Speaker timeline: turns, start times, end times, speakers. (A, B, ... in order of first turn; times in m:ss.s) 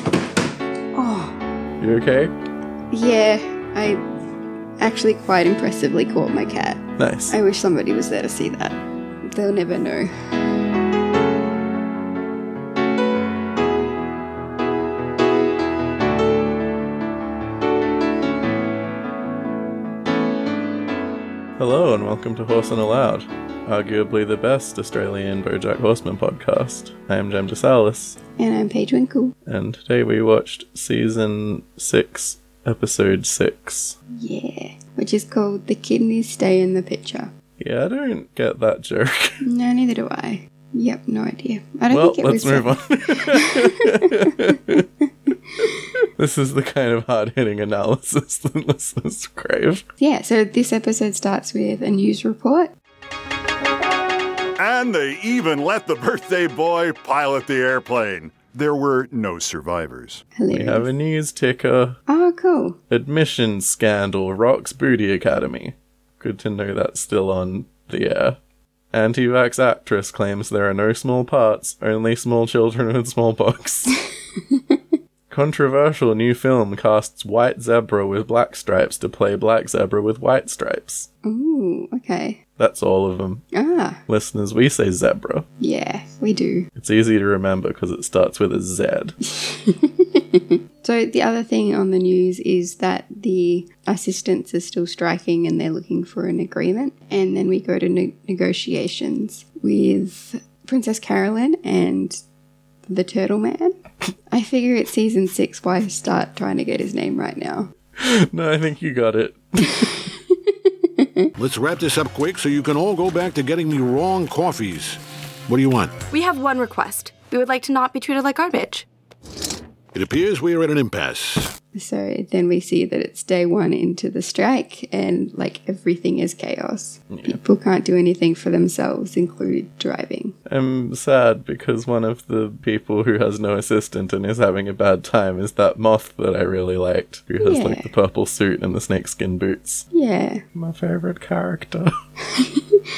0:01.0-0:01.4 A
0:01.8-0:02.3 B
0:02.9-0:04.0 A
0:04.8-0:10.1 A
0:07.0-0:07.4 B
0:21.6-0:28.2 B
0:28.4-0:29.4 A
0:29.5-0:34.0 B
0:34.1-0:37.3 A
0:37.6-0:39.4 B
0:39.4-0:44.0 A
0:41.9-0:44.8 B
0:46.2-0:49.8 B
0:50.0-0:52.7 A
0:54.6-1:00.2 C
1:00.4-1:00.9 A
1:00.5-1:02.0 B
1:02.1-1:02.8 A
1:02.9-1:08.4 B
1:08.9-1:13.9 B
1:15.3-1:21.1 B
1:21.2-1:22.4 A
1:22.6-1:23.4 B
1:23.5-1:24.0 A
1:24.1-1:25.5 B
1:25.6-1:26.7 A
1:26.8-1:29.2 B
1:29.3-1:42.2 A
1:42.9-1:43.8 A
1:44.3-1:47.7 A
1:48.0-1:50.1 B
1:50.3-1:51.3 A
1:51.4-1:55.9 D
1:56.1-1:58.9 E
1:59.9-2:01.5 D
2:01.7-2:10.4 A
2:07.1-2:07.4 B
2:10.5-2:19.9 B
2:17.4-2:17.9 A
2:19.9-2:20.4 A
2:20.6-2:21.9 B
2:22.4-2:22.8 A